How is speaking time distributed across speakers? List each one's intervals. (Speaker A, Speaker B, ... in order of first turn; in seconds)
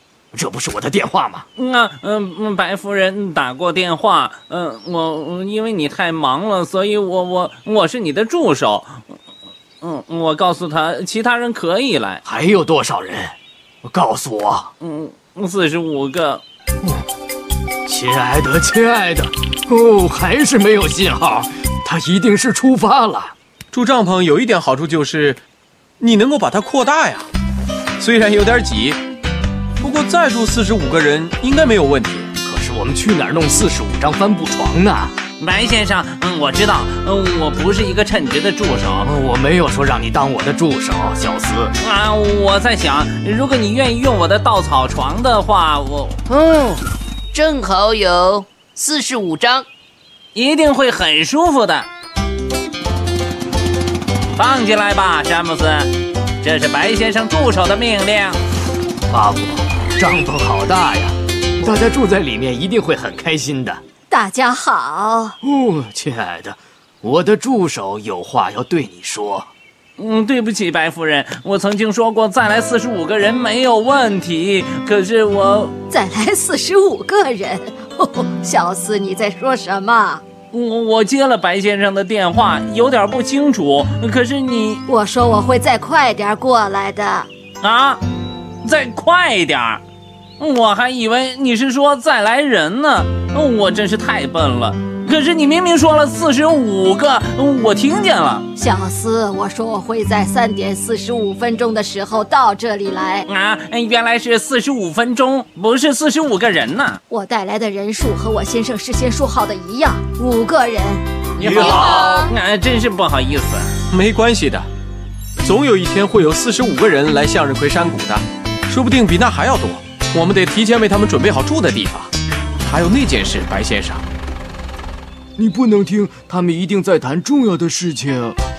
Speaker A: 0.3-1.4, 12.2-14.7, 17.9-23.3, 32.4-35.1, 39.0-41.7, 59.1-63.8, 65.4-69.5
Speaker B: 1.6-9.1, 9.8-12.2, 14.8-16.4, 35.4-39.1, 41.8-46.2, 50.3-51.9, 54.3-58.4, 70.0-75.7, 80.5-84.8, 87.6-88.0, 88.6-89.8, 90.4-98.5, 103.2-107.0, 111.4-113.7
Speaker C: 23.7-25.4, 26.0-27.3, 28.0-29.0, 29.8-32.3, 111.4-112.2, 113.9-114.7, 115.4-124.1
Speaker D: 46.3-49.7
Speaker E: 64.1-65.4, 75.9-80.2, 84.8-87.3, 98.5-103.2, 107.1-112.3
Speaker F: 125.4-128.4